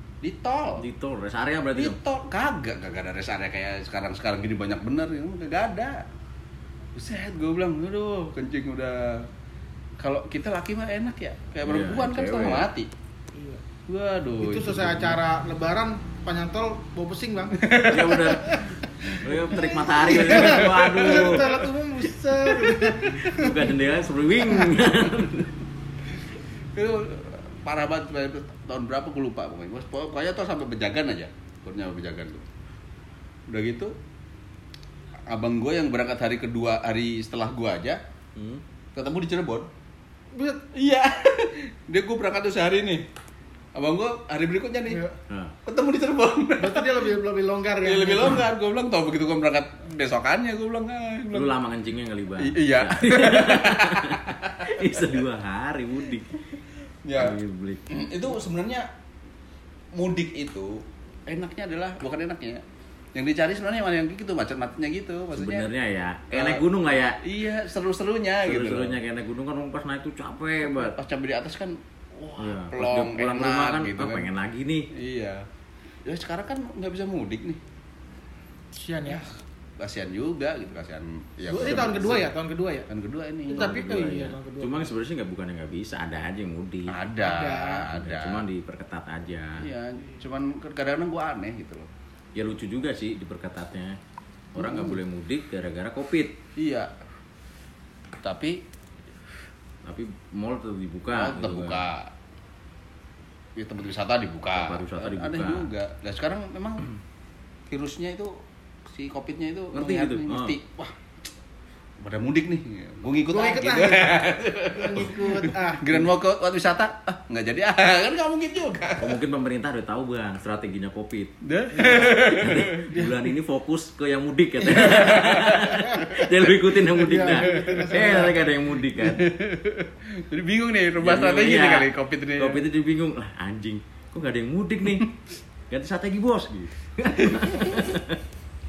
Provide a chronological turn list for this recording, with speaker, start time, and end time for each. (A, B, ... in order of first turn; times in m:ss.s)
0:00.2-0:00.8 A
0:00.8-0:02.0 B
0:01.8-0:06.0 A
0:07.0-0:09.3 A
0:10.0-0:12.9 A
0:11.6-0:12.7 B
0:13.3-0:13.6 C
0:13.9-0:15.2 A
0:14.4-0:23.6 C
0:17.6-0:18.3 A
0:17.9-0:21.5 B
0:20.1-0:21.7 A
0:22.9-0:25.5 B
0:26.7-0:32.4 A
0:33.5-0:33.9 A
0:35.3-0:38.0 A
0:38.4-0:38.6 B
0:38.9-0:39.7 A
0:40.3-0:40.6 C
0:40.7-0:43.0 A
0:43.7-0:45.0 A
0:44.9-0:45.2 C
0:45.3-0:45.5 B
0:45.6-0:47.0 A
0:46.6-0:48.4 C
0:47.8-0:51.5 A
0:51.3-0:56.4 B
0:52.4-0:55.1 A
0:57.0-0:57.4 A
0:57.2-0:57.8 B
0:57.9-0:58.9 A
0:59.9-1:02.6 A
1:03.1-1:05.6 A
1:05.3-1:07.2 B
1:06.3-1:06.6 A
1:07.2-1:09.0 A
1:08.4-1:11.0 B
1:10.7-1:14.3 A
1:12.4-1:14.9 B
1:14.9-1:15.4 A
1:16.0-1:17.6 A
1:18.7-1:19.3 C
1:19.1-1:22.3 A
1:21.4-1:22.9 C
1:22.9-1:23.8 A
1:23.5-1:24.9 C
1:23.6-1:26.9 B
1:26.9-1:28.4 A
1:27.2-1:27.9 C
1:27.9-1:29.7 B
1:29.6-1:31.9 A
1:32.4-1:34.0 B
1:34.5-1:36.4 B
1:34.6-1:35.0 A
1:36.6-1:36.9 A
1:38.2-1:38.6 A
1:39.8-1:41.8 B
1:41.1-1:42.1 A
1:43.6-1:46.9 A
1:44.5-1:45.7 B
1:47.7-1:48.3 A
1:48.8-1:51.1 A
1:49.7-1:50.6 B
1:52.0-1:59.2 A
1:53.3-1:56.1 C
1:59.0-2:09.3 B
2:01.4-2:02.9 A
2:01.8-2:02.1 C
2:04.7-2:06.2 A
2:05.8-2:06.2 C
2:06.9-2:08.4 C
2:07.3-2:08.2 A
2:09.0-2:12.6 A
2:11.0-2:15.0 B
2:15.7-2:18.2 B